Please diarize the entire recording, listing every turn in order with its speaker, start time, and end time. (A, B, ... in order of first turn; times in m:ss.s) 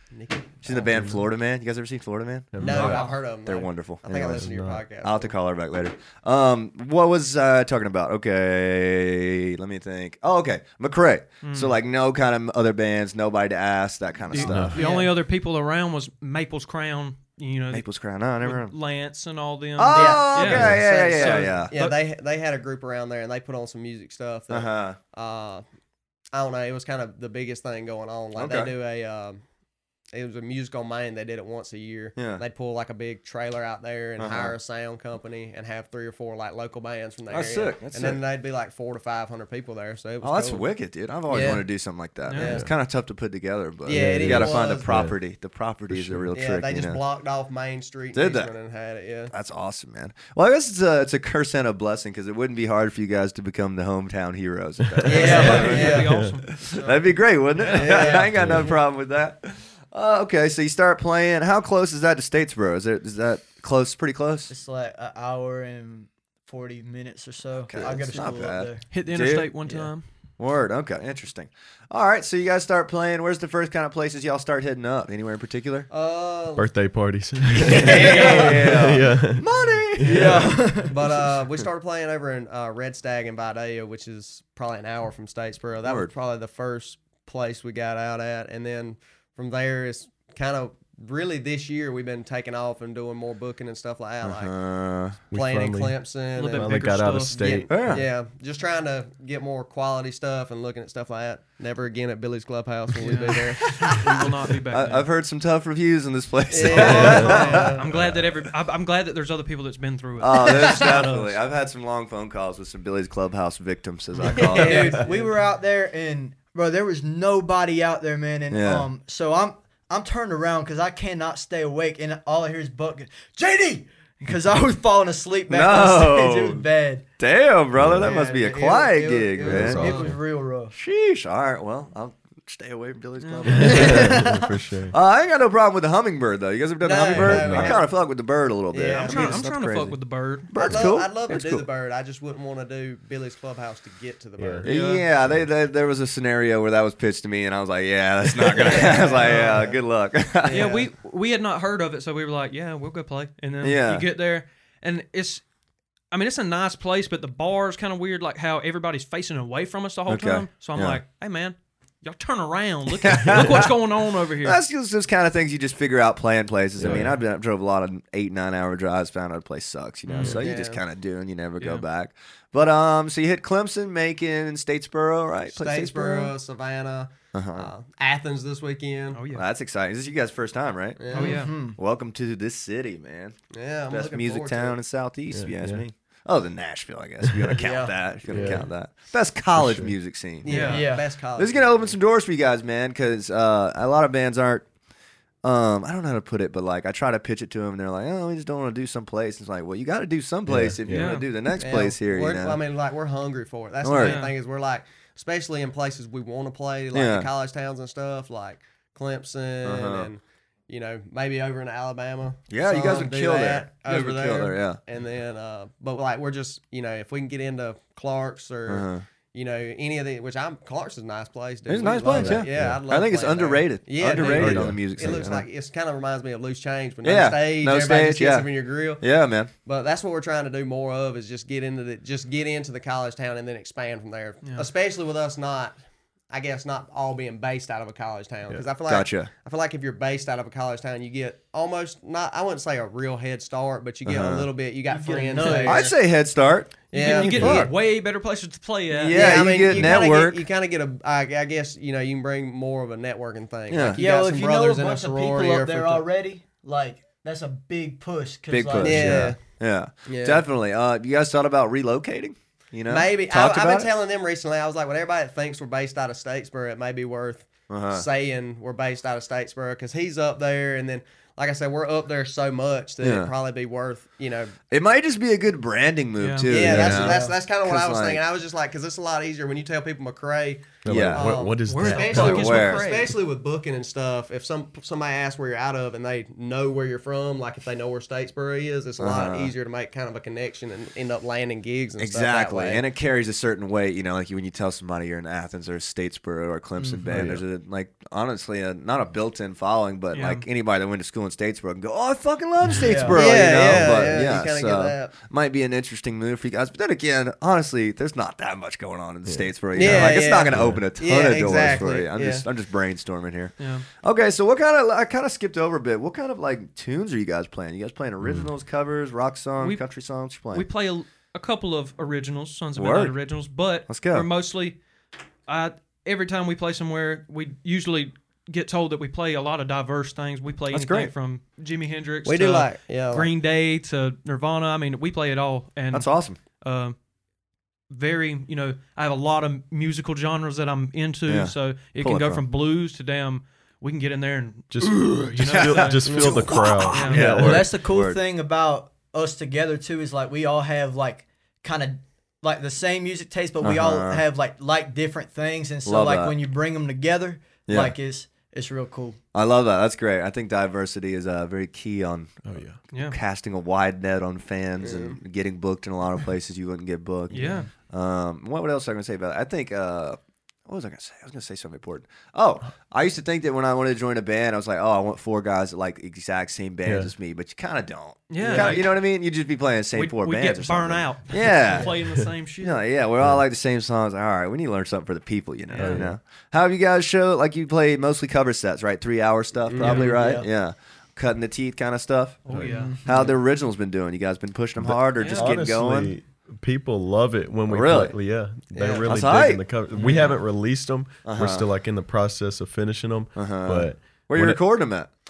0:00.1-0:00.8 A
0:00.6-0:04.4 B
0:00.9-0:01.2 C
0:02.5-0:03.0 C
0:02.6-0:05.3 A
0:02.6-0:03.2 D
0:04.3-0:04.8 C
0:05.0-0:14.8 B
0:11.4-0:11.8 E
0:14.3-0:22.0 E
0:14.4-0:14.8 C
0:14.7-0:15.1 A
0:14.8-0:15.1 D
0:17.7-0:18.7 B
0:19.8-0:21.7 B
0:19.9-0:20.3 D
0:20.0-0:25.6 A
0:20.5-0:20.8 C
0:24.5-0:25.0 B
0:26.3-0:29.4 A
0:28.4-0:28.7 B
0:30.1-0:40.6 A
0:32.2-0:32.4 B
0:34.2-0:34.6 B
0:37.3-0:38.2 B
0:40.2-0:47.0 B
0:41.3-0:41.6 A
0:42.3-0:42.5 E
0:42.4-0:42.7 A
0:43.8-0:44.9 A
0:43.9-0:45.2 C
0:45.9-0:46.3 C
0:46.3-0:49.3 A
0:48.1-0:48.5 B
0:49.3-1:04.5 B
0:54.9-0:56.4 C
0:55.0-0:56.7 E
0:55.0-0:57.1 A
0:55.1-0:55.9 D
0:57.6-0:58.2 E
0:57.6-0:58.8 A
0:58.2-0:58.7 C
1:04.5-1:08.9 D
1:07.7-1:09.5 B
1:08.9-1:10.0 E
1:10.4-1:15.9 B
1:15.9-1:16.7 A
1:16.6-1:20.7 C
1:17.6-1:18.7 A
1:17.6-1:21.2 B
1:20.0-1:21.0 D
1:20.9-1:34.5 A
1:25.8-1:26.1 B
1:34.2-1:35.2 B
1:35.3-1:38.0 C
1:35.3-1:44.0 A
1:36.4-1:37.5 E
1:37.7-1:38.0 B
1:43.0-1:45.1 E
1:43.6-1:48.2 B
1:46.5-1:47.9 A
1:46.7-1:51.4 E
1:46.8-1:47.5 C
1:50.2-1:55.0 B
1:50.5-1:51.1 A
1:54.2-1:54.9 E
1:54.2-1:55.3 A
1:54.4-2:07.0 D
1:58.5-1:58.9 B
2:05.5-2:06.7 B
2:07.2-2:10.1 B
2:07.8-2:08.1 C
2:08.0-2:10.1 A
2:09.4-2:10.1 C
2:09.7-2:10.7 D
2:10.7-2:14.4 B
2:13.2-2:13.8 E
2:13.5-2:15.0 C
2:13.7-2:14.5 D
2:14.9-2:20.0 B
2:16.8-2:17.9 A
2:17.1-2:17.8 C
2:18.7-2:19.5 A
2:18.8-2:20.8 E
2:20.5-2:21.7 B
2:20.5-2:24.7 A
2:24.4-2:24.7 C
2:24.6-2:30.7 B
2:24.6-2:25.1 E
2:28.6-2:29.7 A
2:28.7-2:29.7 E
2:30.4-2:30.9 A
2:30.5-2:35.4 E
2:33.6-2:34.1 B
2:36.1-2:44.6 E
2:40.1-2:41.0 B
2:42.9-2:43.8 B
2:44.4-2:56.4 B
2:46.8-2:47.2 C
2:50.1-2:50.5 E
2:50.2-2:50.8 A
2:51.6-2:51.8 E
2:55.6-2:59.2 A
2:57.3-2:57.7 B
2:59.1-2:59.5 E
2:59.3-3:03.4 B
3:01.0-3:01.5 A
3:01.1-3:01.5 E
3:01.1-3:01.8 D
3:03.5-3:04.8 A
3:03.9-3:14.7 B
3:05.3-3:05.8 C
3:07.2-3:07.6 C
3:07.6-3:08.6 D
3:07.6-3:08.5 A
3:08.3-3:08.7 C
3:09.6-3:10.0 C
3:10.4-3:12.0 A
3:10.5-3:10.9 E
3:10.7-3:11.0 D
3:15.4-3:22.6 B
3:20.5-3:21.2 C
3:20.9-3:21.3 E
3:21.6-3:49.0 A
3:23.8-3:24.2 B
3:24.0-3:24.3 E
3:26.9-3:27.3 B
3:29.6-3:30.1 B
3:32.5-3:34.8 B
3:38.7-3:39.0 B
3:41.7-3:45.5 B
3:42.1-3:42.8 C
3:44.2-3:45.4 C
3:47.0-3:49.5 B
3:49.6-3:55.8 A
3:54.4-3:54.7 E
3:56.3-4:06.0 A
3:58.9-3:59.3 B
4:04.0-4:04.5 B
4:04.9-4:05.9 D
4:05.6-4:07.7 B
4:06.9-4:07.7 A
4:06.9-4:09.6 E
4:08.9-4:10.4 B
4:09.1-4:16.1 A
4:09.7-4:10.0 C
4:13.7-4:14.0 B
4:14.0-4:19.3 D
4:18.5-4:23.9 B
4:18.8-4:19.4 A
4:20.1-4:20.4 A
4:22.9-4:34.6 A
4:27.7-4:28.1 B
4:33.0-4:33.3 B
4:34.7-4:38.2 B
4:36.2-4:36.5 E
4:36.5-4:52.8 A
4:36.5-4:37.1 C
4:36.8-4:37.4 D
4:40.8-4:42.5 C
4:40.9-4:41.4 B
4:41.6-4:43.1 E
4:42.2-4:43.0 B
4:49.0-4:49.5 B
4:52.0-5:20.7 B
4:56.8-4:57.2 D
4:57.1-4:57.4 C
5:00.1-5:00.4 E
5:02.6-5:04.2 C
5:02.8-5:03.2 D
5:03.1-5:05.1 A
5:09.3-5:10.8 C
5:09.7-5:12.4 A
5:13.6-5:13.9 E
5:18.2-5:18.5 C
5:19.6-5:24.8 E
5:22.8-5:23.2 B
5:23.9-5:24.3 B
5:25.5-5:37.0 E
5:30.7-5:31.1 B
5:32.3-5:33.3 A
5:35.9-5:36.4 B
5:37.9-5:46.2 E
5:41.3-5:42.4 B
5:44.7-5:47.7 C
5:44.9-5:48.2 B
5:46.1-5:46.6 A
5:46.9-5:47.4 E
5:47.3-5:59.2 D
5:53.6-5:54.2 B
5:55.9-5:56.4 B
5:57.7-5:58.0 B
5:59.3-6:36.1 B
6:02.4-6:02.8 C
6:02.9-6:03.2 E
6:04.8-6:05.2 A
6:07.3-6:07.7 E
6:07.4-6:07.7 D
6:16.8-6:17.1 C
6:18.3-6:19.0 E
6:18.4-6:18.7 A
6:19.9-6:22.8 E
6:25.7-6:26.1 E
6:25.8-6:26.2 C
6:29.7-6:30.2 A
6:29.8-6:30.1 E
6:30.0-6:30.5 D
6:32.4-6:32.9 E
6:32.5-6:32.8 C
6:32.6-6:33.3 D
6:34.8-6:44.6 C
6:35.2-6:35.5 E
6:37.7-6:38.1 B
6:38.7-6:39.1 A
6:39.1-6:39.7 B
6:40.0-6:40.4 E
6:41.2-6:41.7 B
6:43.4-6:45.1 B